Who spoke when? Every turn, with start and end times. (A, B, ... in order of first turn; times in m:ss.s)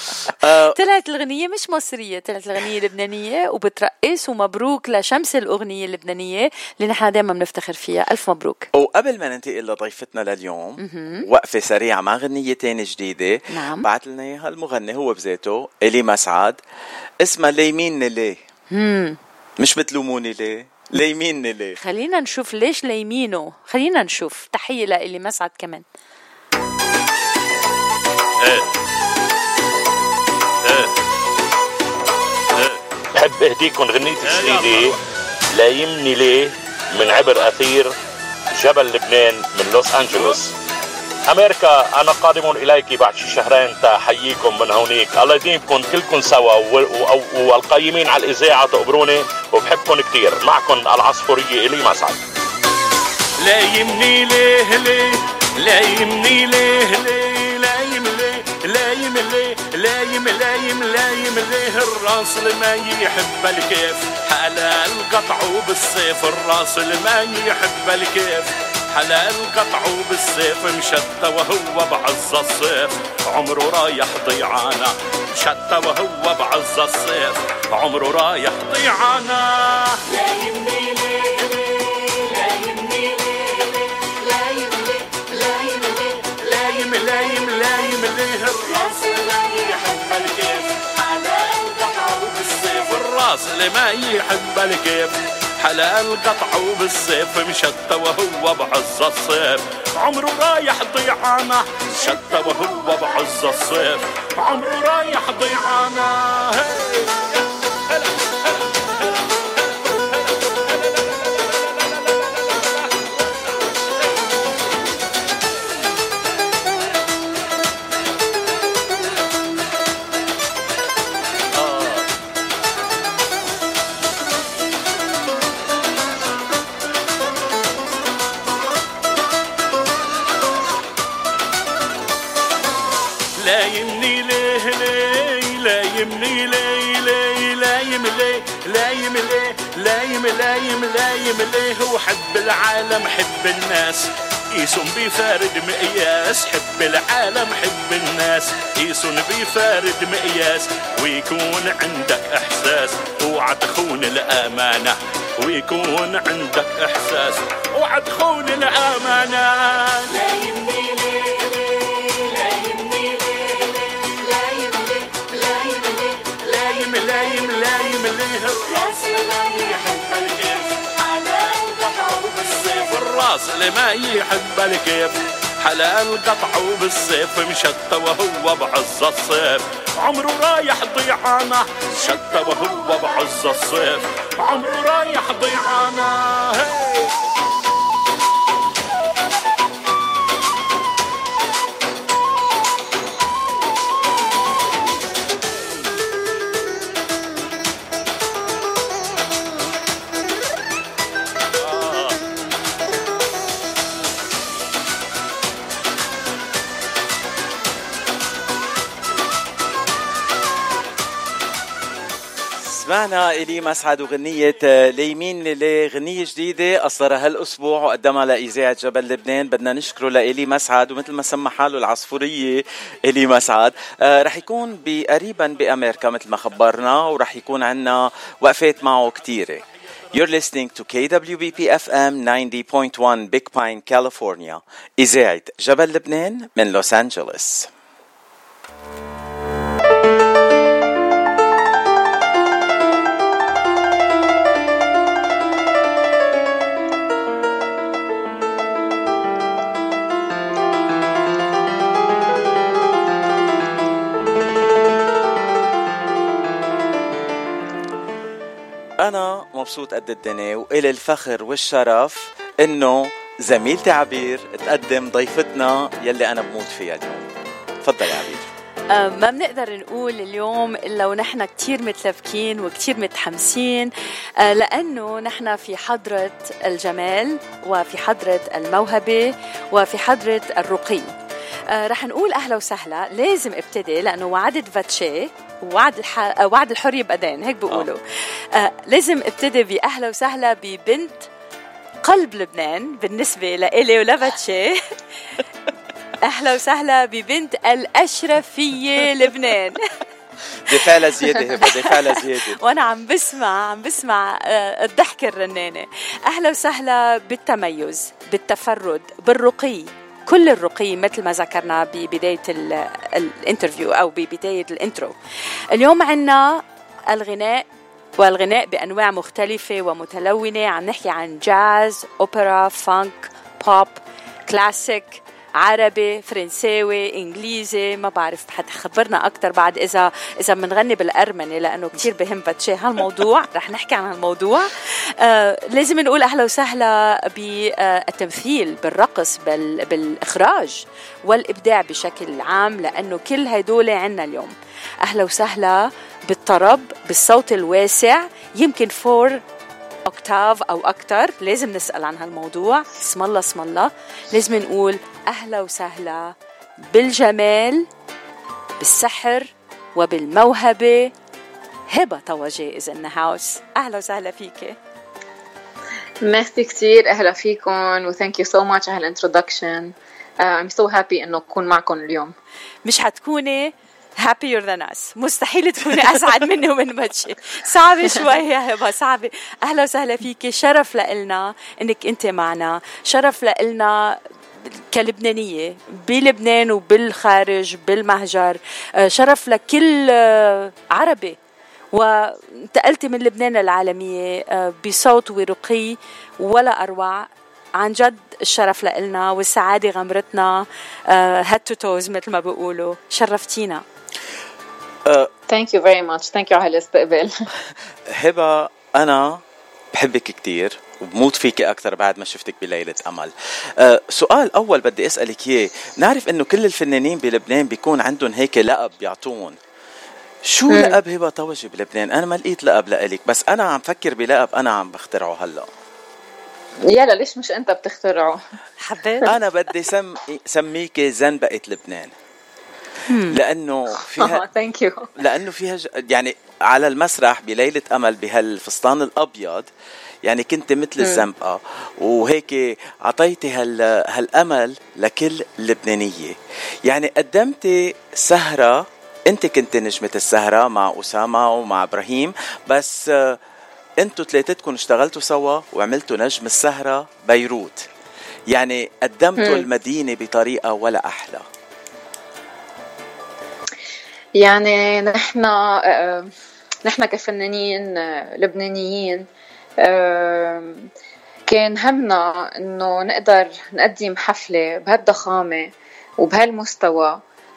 0:00.2-0:00.8 A
0:00.7-0:08.7 B
0:08.7-0:16.6 A
0:10.8-0:11.2 B
0:13.5-0:13.8 B
0:17.2-0:18.4 A
0:18.7-0:19.2 B
0:19.6-0:21.8 A
0:21.8-0:25.8 B
0:33.1-0:35.0 C
0:34.3-0:34.9 D
0:35.5-0:37.9 C
0:38.6-0:40.5 C
0:41.3-0:52.2 C
0:53.4-1:23.8 D
1:24.3-1:47.3 D
2:13.4-2:41.4 D
2:42.1-2:43.5 D
2:44.9-3:07.1 D
3:21.6-3:22.2 D
3:32.6-3:57.7 A
4:19.0-4:27.2 A
4:27.8-4:28.4 A
4:28.9-4:41.1 B
4:41.7-4:48.0 B
4:48.5-4:51.3 B
4:52.0-4:54.8 B
4:56.2-4:59.8 B
5:00.6-5:02.6 A
5:01.6-5:15.2 B
5:15.7-5:17.7 B
5:18.2-5:49.4 B
5:50.0-5:57.9 B
5:58.8-6:01.1 B
6:01.9-6:04.8 B
6:06.2-6:12.3 E
6:12.8-6:24.2 B
6:24.8-6:31.4 B
6:31.9-6:43.8 B
6:45.5-6:47.3 E
6:48.1-6:49.4 A
6:49.9-6:59.6 A
7:00.4-7:05.7 A
7:00.7-7:01.0 E
7:06.9-7:08.4 E
7:08.8-7:09.3 B
7:09.2-7:12.1 A
7:13.1-7:13.3 B
7:13.3-7:14.4 A
7:14.2-7:15.1 E
7:15.2-7:19.7 A
7:20.2-7:33.4 A
7:34.0-7:37.8 A
7:38.5-7:41.4 A
7:44.4-7:46.3 E
7:46.8-7:49.2 E
7:49.8-7:50.9 E
7:51.5-7:57.2 E